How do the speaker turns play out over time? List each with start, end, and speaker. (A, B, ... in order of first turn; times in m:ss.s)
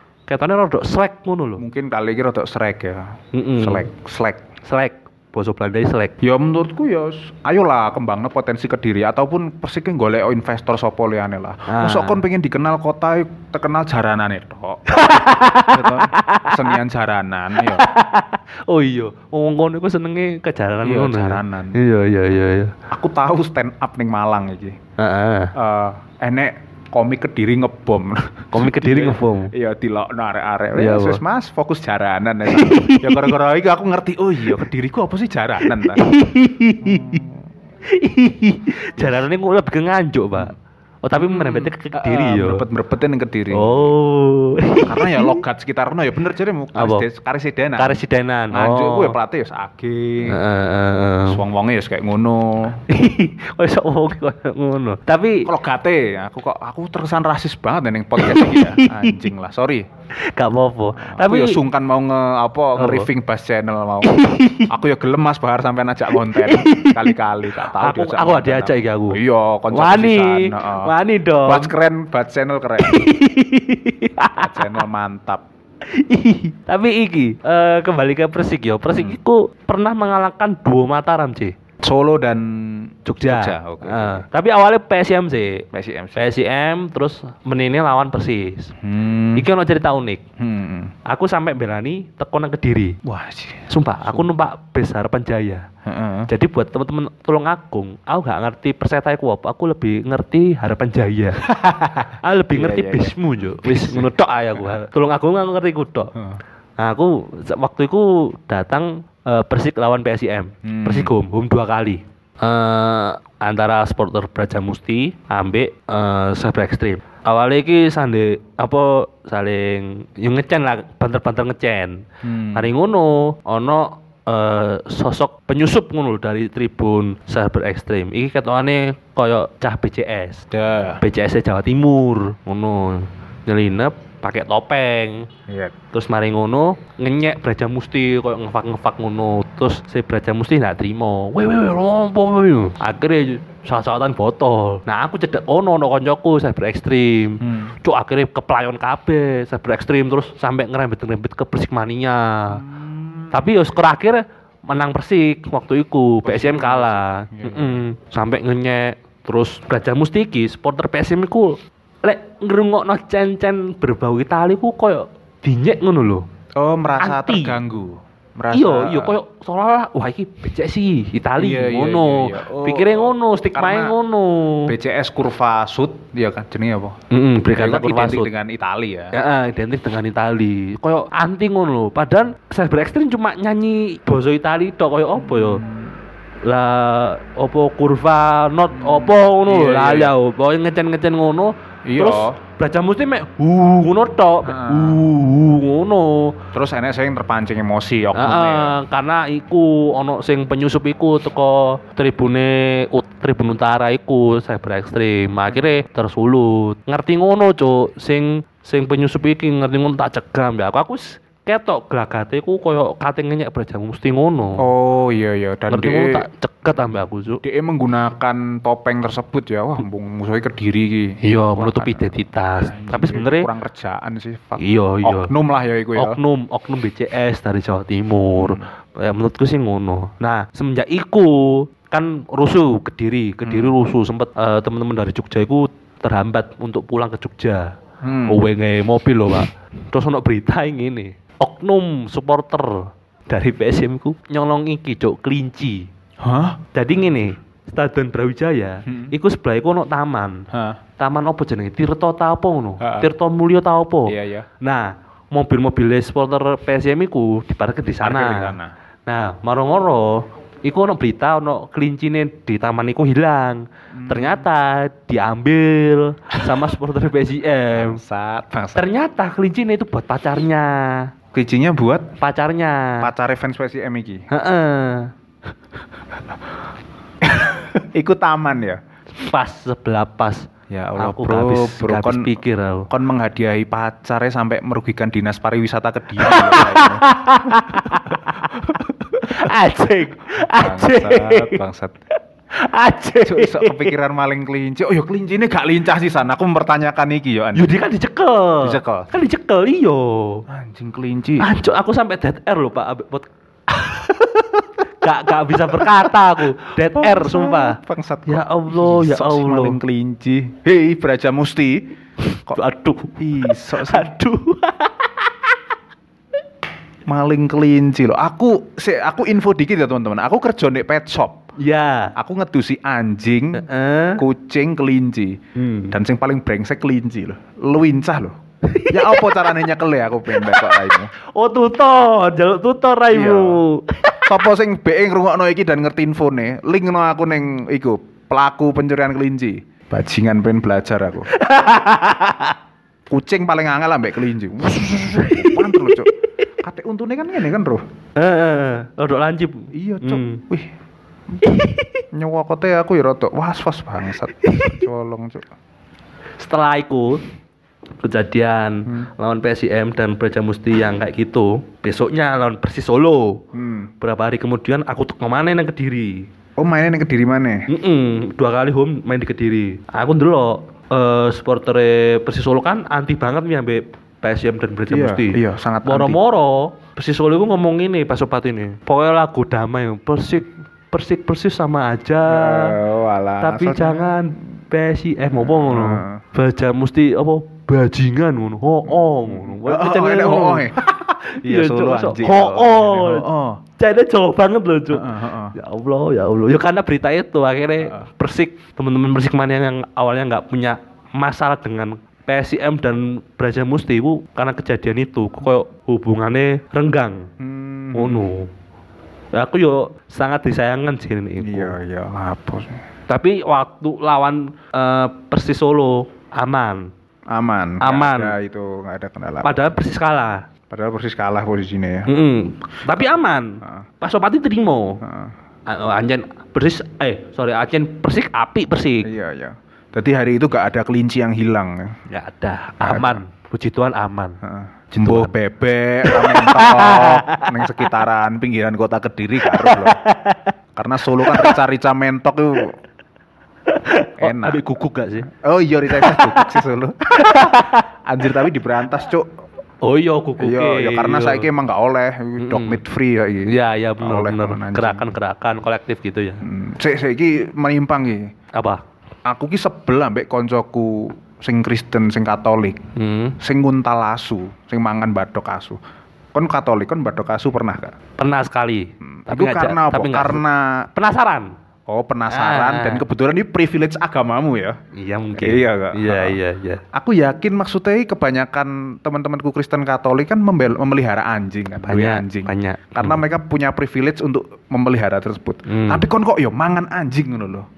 0:00.3-0:01.6 A
0:01.6-0:04.4 B
0:03.3-0:03.8 A
0:04.6-0:06.1 A
0:06.2-0:17.9 B
0:11.7-0:12.2 A
0:14.9-0:16.8 A
0:17.5-0:22.8 A
0:20.8-0:21.8 B
0:22.9-0:24.8 B
0:25.0-0:25.5 A
0:25.6-0:36.0 B
0:28.5-0:29.5 A
0:30.8-0:31.2 A
0:32.5-0:33.4 A
0:35.6-0:37.2 A
0:36.8-0:37.3 B
0:37.9-0:40.5 A
0:39.0-0:39.2 B
0:41.0-0:42.6 A
0:41.1-0:43.9 B
0:43.5-0:45.4 A
0:44.8-0:48.0 B
0:46.8-0:47.0 A
0:47.8-0:49.2 A
0:48.5-0:50.4 B
0:50.2-0:51.4 A
0:51.3-0:52.8 B
0:52.9-0:55.5 A
0:55.4-0:59.8 B
0:58.2-0:59.2 A
1:00.3-1:01.6 A
1:01.0-1:04.1 B
1:02.8-1:03.1 A
1:04.0-1:04.7 A
1:04.7-1:10.9 B
1:06.1-1:09.2 A
1:09.7-1:11.7 A
1:11.4-1:13.1 B
1:12.8-1:14.8 A
1:14.4-1:15.4 B
1:15.9-1:21.6 A
1:18.9-1:19.2 B
1:21.8-1:24.2 B
1:23.1-1:25.6 A
1:25.7-1:26.3 B
1:26.2-1:28.7 A
1:28.8-1:29.5 B
1:29.3-1:30.2 A
1:30.4-1:30.9 B
1:31.0-1:33.0 A
1:33.0-1:34.3 B
1:33.7-1:35.6 A
1:35.8-1:36.3 B
1:36.3-1:41.4 A
1:41.4-1:44.8 B
1:42.2-1:46.1 A
1:46.1-1:46.4 B
1:46.8-2:10.4 A
1:50.6-1:51.1 B
2:02.2-2:02.7 B
2:10.5-2:11.0 B
2:11.0-2:15.3 A
2:15.5-2:15.7 B
2:15.9-2:32.6 A
2:27.4-2:27.7 B
2:32.5-2:33.5 B
2:33.3-2:46.2 A
2:36.2-2:37.8 B
2:46.6-2:49.2 B
2:47.0-2:47.6 A
2:48.5-2:54.7 A
2:51.4-2:54.0 B
2:54.7-2:57.0 B
2:57.1-2:58.3 A
2:57.5-2:59.1 B
2:59.1-3:05.6 A
3:05.2-3:05.9 B
3:06.4-3:16.4 A
3:08.7-3:10.1 B
3:11.9-3:12.4 B
3:14.4-3:15.1 B
3:16.5-3:18.8 B
3:18.1-3:34.6 A
3:34.6-3:36.2 B
3:35.7-3:37.4 A
3:37.4-3:46.2 B
3:41.2-3:43.5 A
3:44.6-3:45.3 A
3:46.0-3:57.7 A
3:48.4-3:48.6 B
3:53.4-3:53.7 B
3:58.0-3:58.4 B
3:58.3-4:05.9 A
4:06.2-4:06.6 B
4:06.7-4:10.4 A
4:08.8-4:09.1 B
4:10.5-4:10.8 B
4:11.0-4:18.6 A
4:12.8-4:13.1 B
4:14.1-4:14.5 B
4:18.0-4:18.7 B
4:19.1-4:28.0 A
4:23.9-4:24.5 B
4:27.7-4:28.9 B
4:28.7-4:31.1 A
4:31.3-4:32.1 B
4:32.2-4:33.1 A
4:33.0-4:34.2 B
4:34.3-4:35.1 A
4:37.2-4:38.8 B
4:39.2-4:42.9 A
4:40.7-4:42.4 B
4:42.9-4:49.5 B
4:46.2-4:51.6 A
4:50.4-4:51.9 B
4:52.5-4:53.9 A
4:53.2-4:57.7 B
4:57.5-5:00.4 A
4:58.6-4:59.1 B
5:00.5-5:01.5 B
5:01.4-5:04.5 A
5:05.0-5:09.8 A
5:05.7-5:06.1 B
5:06.8-5:11.9 B
5:12.2-5:15.5 A
5:13.2-5:14.2 B
5:17.0-5:21.4 B
5:21.6-5:22.1 A
5:22.2-5:23.6 B
5:23.5-5:24.2 A
5:24.2-5:25.4 B
5:25.6-5:26.0 A
5:25.9-5:31.1 B
5:28.6-5:29.6 A
5:30.3-5:34.3 A
5:33.1-5:33.6 B
5:34.2-5:41.3 B
5:41.3-5:42.6 A
5:43.1-5:47.8 B
5:44.6-5:46.1 A
5:48.2-5:50.4 A
5:49.7-5:50.7 B
5:51.3-5:55.5 B
5:51.4-5:52.0 A
5:54.4-5:54.8 A
5:56.4-5:57.2 A
5:58.0-6:03.4 A
6:03.5-6:03.9 B
6:04.0-6:06.3 A
6:06.6-6:07.7 B
6:07.7-6:22.8 A
6:14.9-6:16.2 B
6:22.3-6:24.2 B
6:23.4-6:30.7 A
6:25.5-6:26.2 B
6:28.9-6:33.6 B
6:31.3-6:33.3 A
6:33.8-6:47.3 A
6:34.9-6:35.5 B
6:47.4-6:48.4 B
6:47.9-6:48.5 A
6:49.3-6:51.8 A
6:51.4-6:52.8 B
6:53.1-6:56.9 A
6:57.3-6:59.8 B
6:57.8-6:58.3 A
6:59.4-7:00.4 A
7:00.7-7:02.1 B
7:02.0-7:05.0 A
7:05.0-7:05.3 B
7:05.7-7:09.1 A
7:09.0-7:11.9 B
7:12.1-7:14.4 A
7:12.8-7:13.2 B
7:14.4-7:20.0 B
7:14.9-7:15.3 A
7:16.0-7:17.9 A
7:19.4-7:20.5 A
7:20.8-7:22.8 B
7:21.3-7:21.6 A
7:23.7-7:25.3 A
7:24.2-7:24.6 B
7:25.2-7:29.3 B
7:25.9-7:26.6 A
7:27.2-7:27.9 A
7:29.8-7:31.5 A
7:30.4-7:35.1 B
7:32.4-7:32.8 A
7:33.5-7:36.4 A
7:36.4-7:38.3 B
7:38.5-7:38.8 A
7:39.2-7:42.8 B
7:43.0-7:43.4 A
7:43.4-7:45.8 B
7:46.3-7:48.0 B
7:48.2-7:50.4 A
7:49.0-7:50.9 B
7:50.9-7:51.5 A
7:51.9-7:54.8 B
7:52.3-7:53.0 A
7:54.9-7:56.8 A
7:55.4-7:56.4 B
7:56.9-8:07.6 B
8:01.8-8:03.2 A
8:05.7-8:06.1 A